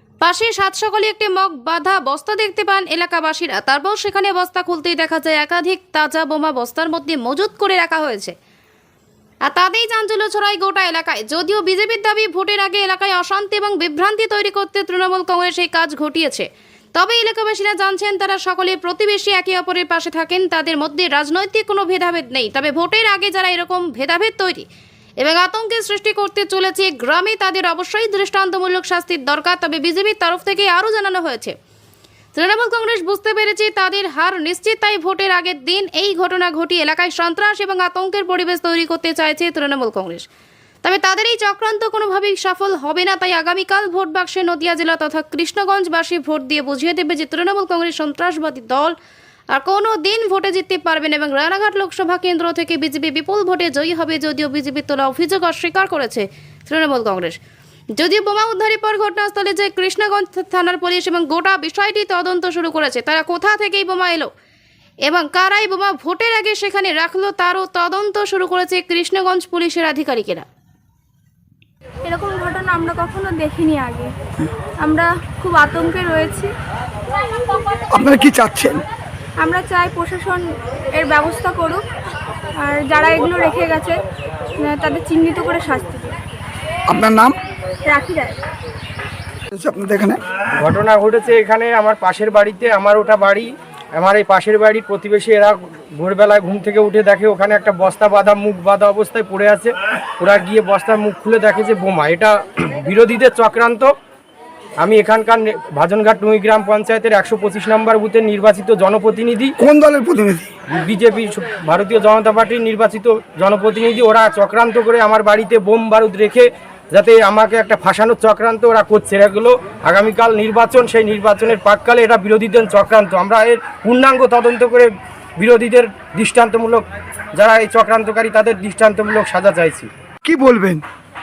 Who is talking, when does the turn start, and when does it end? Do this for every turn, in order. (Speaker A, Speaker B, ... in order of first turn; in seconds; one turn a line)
Speaker A: 0.2-8.3
Speaker A: 9.5-24.6
Speaker A: 25.2-31.5
Speaker A: 32.3-40.2
Speaker A: 40.8-49.0
Speaker A: 49.5-57.4
Speaker A: 58.0-64.3
Speaker A: 65.1-70.5
Speaker B: 72.0-74.1
Speaker B: 74.8-76.5
Speaker C: 77.9-78.8
Speaker B: 79.4-80.4
Speaker B: 80.9-81.8
Speaker B: 82.6-84.0
Speaker B: 84.6-86.2
Speaker C: 86.9-87.4
Speaker B: 87.8-88.3
Speaker C: 89.5-90.2
Speaker D: 90.7-93.5
Speaker D: 94.0-99.7
Speaker D: 100.2-102.3
Speaker D: 102.9-103.9
Speaker D: 104.8-109.5
Speaker C: 109.6-110.5
Speaker D: 110.9-124.9
Speaker D: 125.4-126.8
Speaker D: 127.4-129.9
Speaker C: 130.2-130.8